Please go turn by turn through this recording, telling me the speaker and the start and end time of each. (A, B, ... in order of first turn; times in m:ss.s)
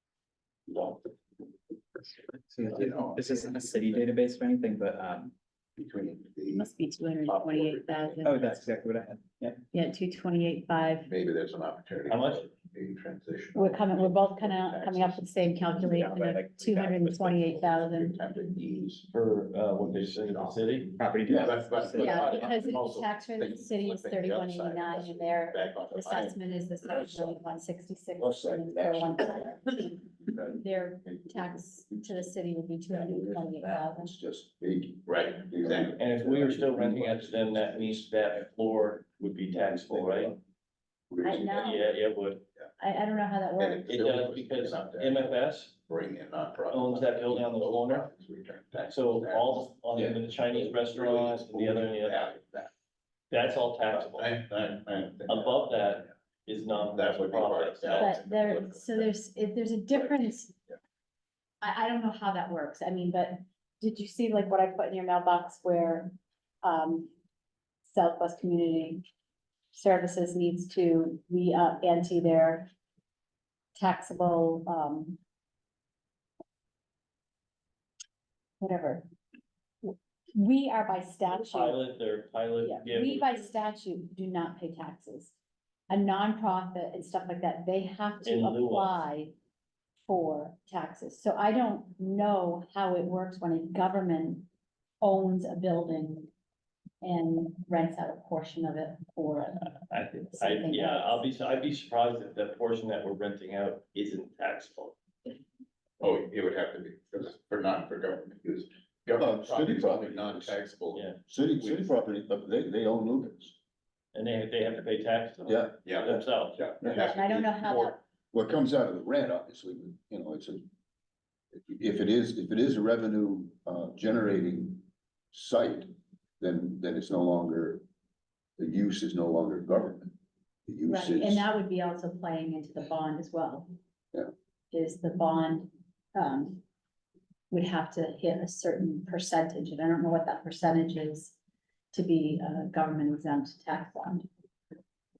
0:00.7-0:01.0 A
0:02.5-0:05.3 B
0:02.6-0:04.0 C
0:05.8-0:08.7 C
0:06.5-0:08.6 D
0:08.2-0:09.6 B
0:09.7-0:11.1 D
0:11.0-0:15.5 C
0:12.1-0:12.4 A
0:13.5-0:18.2 D
0:15.8-0:17.5 B
0:17.3-0:19.1 C
0:19.1-0:20.9 A
0:19.8-0:26.4 C
0:20.9-0:22.4 B
0:22.0-0:30.0 D
0:27.0-0:27.3 C
0:28.2-0:38.1 E
0:30.5-0:34.1 D
0:35.0-0:36.0 C
0:36.0-0:40.4 A
0:39.5-0:40.4 E
0:41.1-0:41.7 E
0:41.2-0:41.9 D
0:41.5-0:42.4 A
0:42.8-0:43.9 D
0:43.6-0:45.4 C
0:43.9-0:45.7 A
0:45.9-0:52.7 C
0:46.7-0:48.1 A
0:48.9-0:52.3 A
0:53.3-0:54.3 A
0:53.9-0:55.9 C
0:55.3-0:58.2 A
0:56.9-0:59.1 C
0:58.0-1:00.5 D
0:59.9-1:00.2 C
1:01.6-1:07.1 D
1:07.8-1:09.0 D
1:09.7-1:12.7 D
1:13.8-1:15.2 D
1:18.6-1:19.0 D
1:19.8-1:21.8 D
1:21.3-1:23.5 A
1:22.6-1:25.3 D
1:25.9-1:29.3 D
1:28.2-1:29.0 A
1:30.1-1:34.5 D
1:35.0-1:36.3 D
1:37.0-1:39.7 D
1:39.6-1:45.0 A
1:40.3-1:41.2 D
1:46.0-1:51.1 C
1:49.2-1:50.6 E
1:50.9-1:51.2 A
1:51.2-1:53.6 E
1:51.6-1:51.9 C
1:54.1-1:56.6 A
1:55.4-1:55.8 E
1:55.8-1:57.7 C
1:56.8-2:00.6 E
1:56.8-1:58.0 D
2:01.5-2:07.8 E
2:08.6-2:10.1 E
2:10.6-2:11.5 E
2:10.9-2:13.7 D
2:14.7-2:16.6 D
2:17.5-2:21.3 D
2:21.9-2:24.3 D